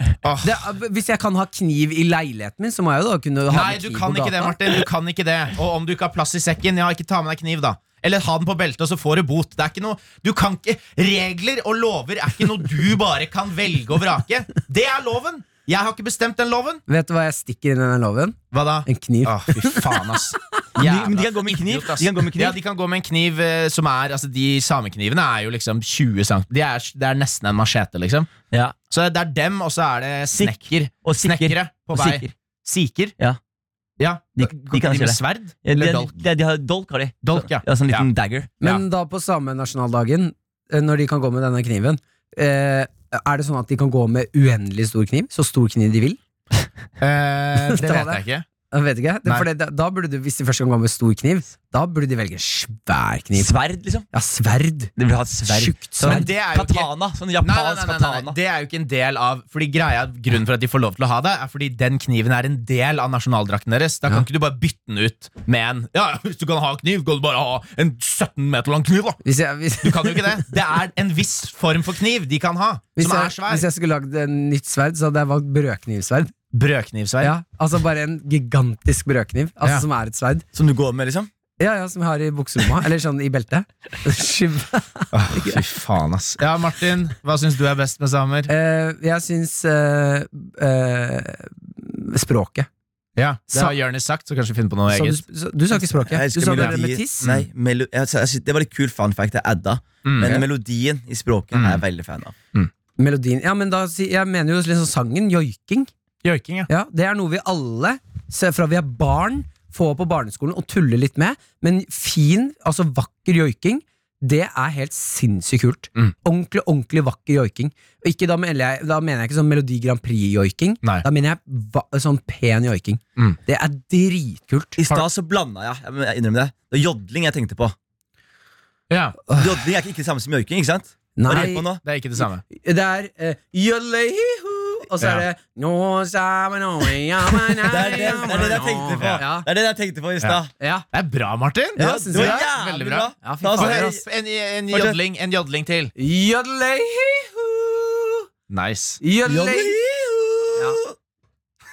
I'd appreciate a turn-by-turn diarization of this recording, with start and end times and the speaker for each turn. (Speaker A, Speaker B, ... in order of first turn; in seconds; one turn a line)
Speaker A: 0.2-0.6
Speaker B: 0.4-4.5
Speaker A: 3.5-16.8
Speaker B: 16.9-20.1
Speaker A: 18.5-28.3
Speaker C: 20.8-22.6
Speaker A: 28.9-33.1
Speaker C: 30.4-32.3
Speaker A: 34.0-36.1
Speaker C: 34.4-38.5
Speaker A: 37.2-38.1
Speaker B: 38.6-46.2
Speaker A: 47.0-48.5
Speaker B: 47.6-48.2
Speaker B: 48.7-53.5
Speaker C: 53.3-54.0
Speaker B: 54.1-54.9
Speaker C: 55.0-58.4
Speaker B: 55.5-56.3
Speaker A: 56.0-69.2
Speaker B: 69.2-70.4
Speaker A: 69.8-73.7
Speaker B: 73.0-76.3
Speaker A: 76.5-77.3
Speaker B: 77.2-80.4
Speaker C: 80.5-81.3
Speaker B: 81.6-85.6
Speaker A: 85.1-88.5
Speaker B: 88.5-92.7
Speaker A: 93.2-95.2
Speaker B: 94.9-97.2
Speaker C: 95.8-102.3
Speaker A: 96.5-97.5
Speaker A: 100.0-100.4
Speaker A: 101.5-101.8
Speaker B: 103.0-105.9
Speaker A: 106.2-106.7
Speaker B: 106.7-124.8
Speaker C: 124.8-127.7
Speaker A: 128.9-129.2
Speaker B: 129.3-129.6
Speaker C: 129.3-131.8
Speaker B: 131.2-131.6
Speaker A: 131.8-132.4
Speaker B: 132.5-139.5
Speaker A: 135.0-135.2
Speaker C: 137.6-140.5
Speaker A: 139.0-139.2
Speaker B: 140.6-140.8
Speaker A: 140.9-145.9
Speaker B: 141.8-144.0
Speaker C: 141.8-144.0
Speaker C: 144.7-145.0
Speaker B: 146.0-148.2
Speaker A: 148.5-149.0
Speaker B: 149.0-149.8
Speaker C: 149.2-150.9